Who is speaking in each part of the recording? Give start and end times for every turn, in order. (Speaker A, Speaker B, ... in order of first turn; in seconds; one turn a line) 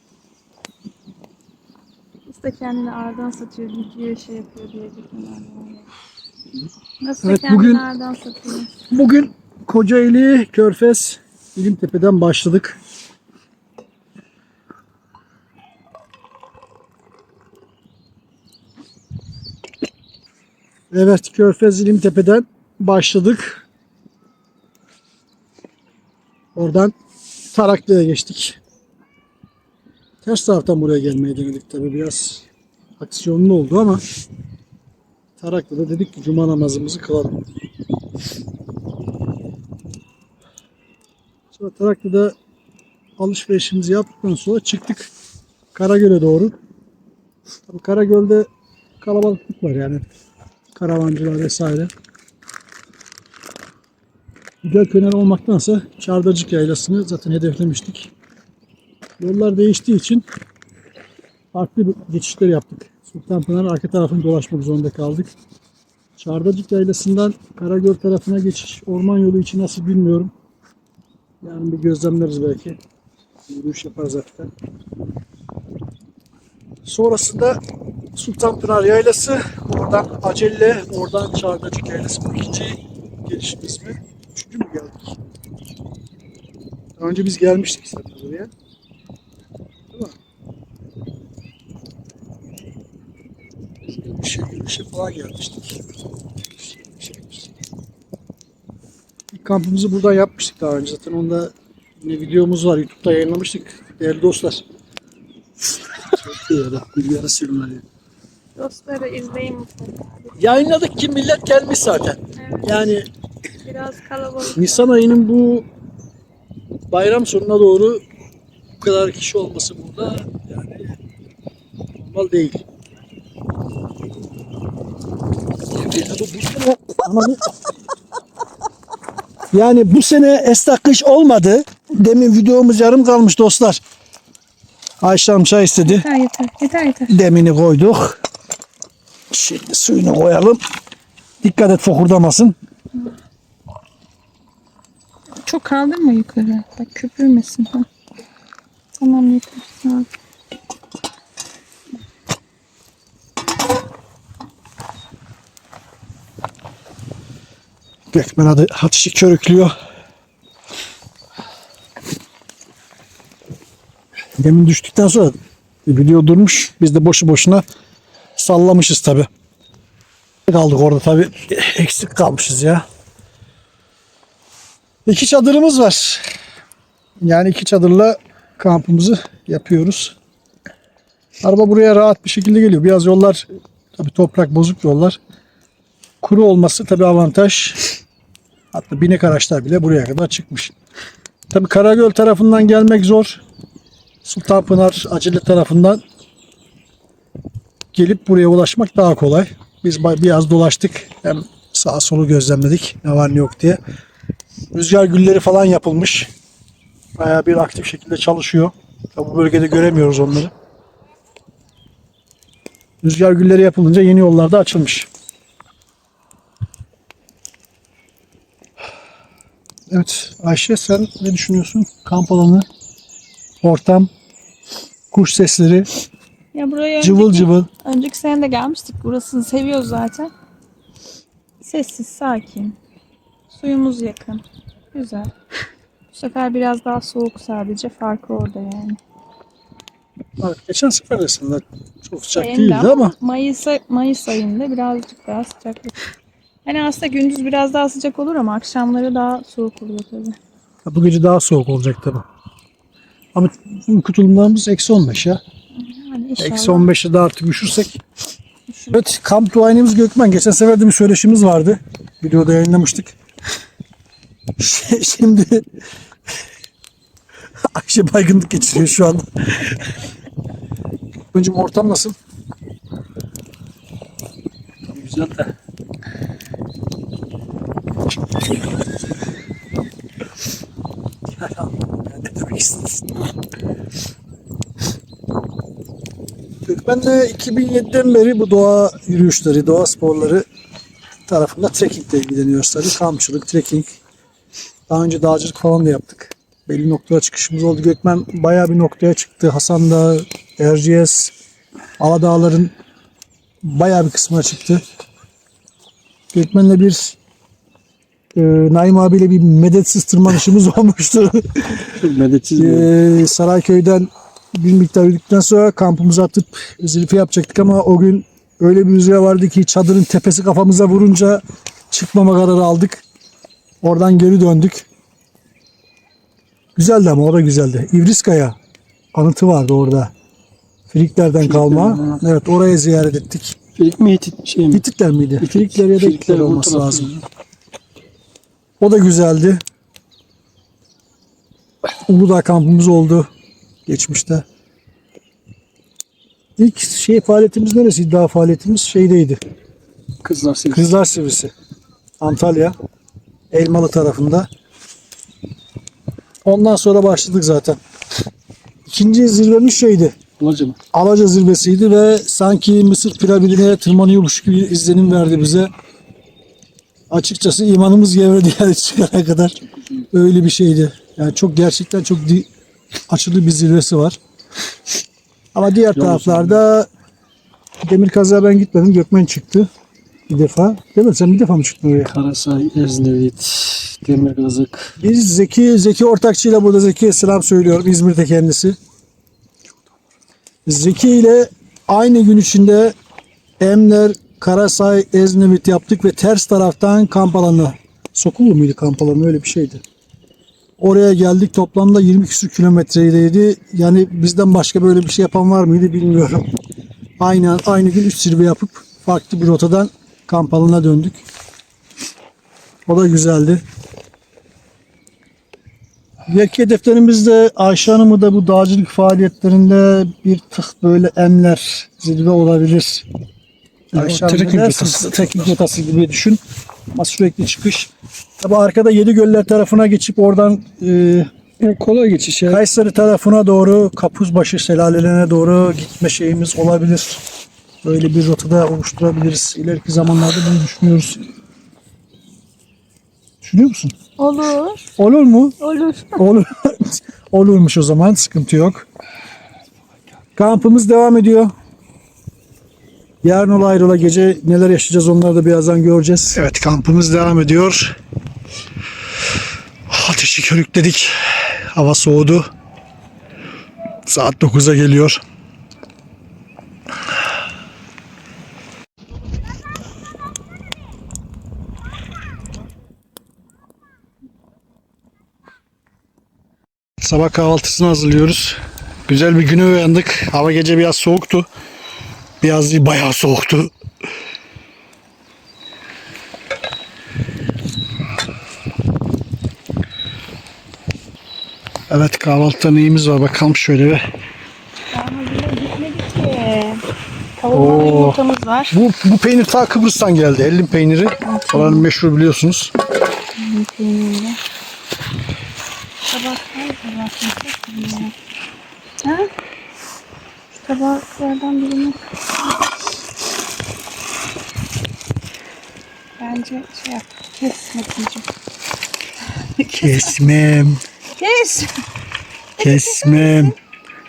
Speaker A: 2.3-5.9
Speaker A: 7.0-8.7
Speaker B: 7.2-7.8
Speaker B: 8.9-12.8
Speaker B: 20.9-23.7
Speaker B: 26.6-26.9
Speaker B: 27.5-28.6
Speaker B: 30.2-32.5
Speaker B: 33.0-34.0
Speaker B: 35.4-37.5
Speaker B: 41.5-42.4
Speaker B: 43.2-45.1
Speaker B: 45.8-46.5
Speaker B: 47.7-48.5
Speaker B: 49.0-50.1
Speaker B: 50.8-51.9
Speaker B: 54.6-58.1
Speaker B: 59.2-60.3
Speaker B: 61.5-65.3
Speaker B: 66.2-70.3
Speaker B: 71.4-72.8
Speaker B: 73.5-74.5
Speaker B: 76.8-77.6
Speaker B: 78.2-85.2
Speaker B: 87.0-88.5
Speaker B: 93.9-95.8
Speaker B: 96.6-97.5
Speaker B: 99.3-104.6
Speaker B: 106.1-107.8
Speaker A: 108.6-110.6
Speaker B: 110.4-113.1
Speaker A: 112.4-112.9
Speaker A: 113.6-114.9
Speaker B: 114.5-115.7
Speaker B: 116.9-118.0
Speaker B: 118.8-121.0
Speaker B: 122.0-122.7
Speaker B: 125.8-127.4
Speaker B: 129.5-133.8
Speaker B: 135.0-136.1
Speaker A: 135.8-137.2
Speaker B: 137.1-138.2
Speaker B: 139.3-140.6
Speaker B: 141.4-142.6
Speaker A: 145.4-147.9
Speaker A: 149.0-150.1
Speaker B: 158.1-159.7
Speaker B: 164.4-167.7
Speaker B: 168.4-169.3
Speaker B: 170.5-172.8
Speaker B: 175.1-176.3
Speaker B: 177.2-180.2
Speaker B: 181.4-185.2
Speaker B: 186.2-187.8
Speaker B: 188.7-190.7
Speaker B: 191.5-193.4
Speaker B: 194.2-196.0
Speaker B: 197.9-203.8
Speaker B: 204.7-206.3
Speaker B: 207.2-210.5
Speaker B: 213.0-215.1
Speaker B: 219.9-222.7
Speaker B: 223.6-224.1
Speaker B: 225.1-225.9
Speaker A: 226.5-230.3
Speaker B: 227.0-227.7
Speaker A: 231.6-232.8
Speaker A: 233.5-235.3
Speaker A: 236.1-239.0
Speaker B: 240.4-243.2
Speaker A: 242.3-246.0
Speaker A: 246.7-250.4
Speaker B: 250.8-252.2
Speaker B: 253.3-255.4
Speaker A: 255.8-256.9
Speaker B: 256.4-258.0
Speaker B: 258.9-263.1
Speaker B: 264.6-265.6
Speaker B: 267.7-269.8
Speaker B: 271.3-272.2
Speaker B: 274.9-275.5
Speaker B: 281.3-283.2
Speaker B: 286.7-290.4
Speaker B: 291.3-294.0
Speaker B: 294.9-301.3
Speaker B: 302.0-302.7
Speaker B: 303.6-304.8
Speaker B: 306.3-307.2
Speaker B: 308.3-311.9
Speaker C: 312.0-312.9
Speaker B: 312.6-323.0
Speaker B: 323.8-324.9
Speaker B: 326.8-328.6
Speaker B: 329.1-330.1
Speaker B: 330.9-333.6
Speaker C: 331.4-332.2
Speaker C: 333.8-334.8
Speaker B: 334.7-337.1
Speaker C: 335.4-337.2
Speaker B: 338.8-339.6
Speaker B: 342.1-343.3
Speaker B: 343.9-344.4
Speaker B: 346.6-349.4
Speaker C: 350.2-350.9
Speaker B: 350.7-351.5
Speaker B: 352.2-352.8
Speaker B: 353.5-354.5
Speaker B: 356.4-357.8
Speaker B: 358.9-360.2
Speaker C: 360.4-360.8
Speaker B: 360.9-365.7
Speaker B: 367.1-372.5
Speaker B: 373.1-374.2
Speaker B: 375.5-376.9
Speaker C: 375.9-376.6
Speaker B: 377.8-379.7
Speaker B: 380.3-382.1
Speaker C: 382.1-384.9
Speaker B: 385.0-388.8
Speaker B: 390.7-392.9
Speaker B: 393.6-399.8
Speaker B: 400.8-406.5
Speaker B: 407.2-411.2
Speaker B: 412.9-413.6
Speaker B: 416.3-423.1
Speaker B: 423.9-426.4
Speaker C: 423.9-425.3
Speaker B: 426.9-431.3
Speaker C: 431.6-432.6
Speaker B: 432.5-437.2
Speaker B: 437.8-441.2
Speaker B: 443.4-443.9
Speaker A: 444.2-444.9
Speaker B: 445.0-445.6
Speaker A: 445.6-446.2
Speaker B: 446.1-448.9
Speaker B: 450.4-451.5
Speaker B: 453.2-458.0
Speaker B: 459.9-462.5
Speaker B: 464.1-465.2
Speaker B: 477.0-481.5
Speaker B: 482.4-483.7
Speaker B: 491.9-494.1
Speaker A: 494.9-496.8
Speaker A: 497.4-498.8
Speaker B: 497.5-498.2
Speaker B: 498.7-502.7
Speaker A: 501.2-501.9
Speaker A: 503.4-504.4
Speaker A: 506.1-508.1
Speaker A: 509.0-509.3
Speaker A: 510.6-512.0
Speaker A: 516.2-518.3
Speaker A: 519.6-520.1
Speaker B: 519.8-520.8
Speaker A: 521.2-521.7
Speaker A: 522.6-523.5
Speaker B: 522.6-523.5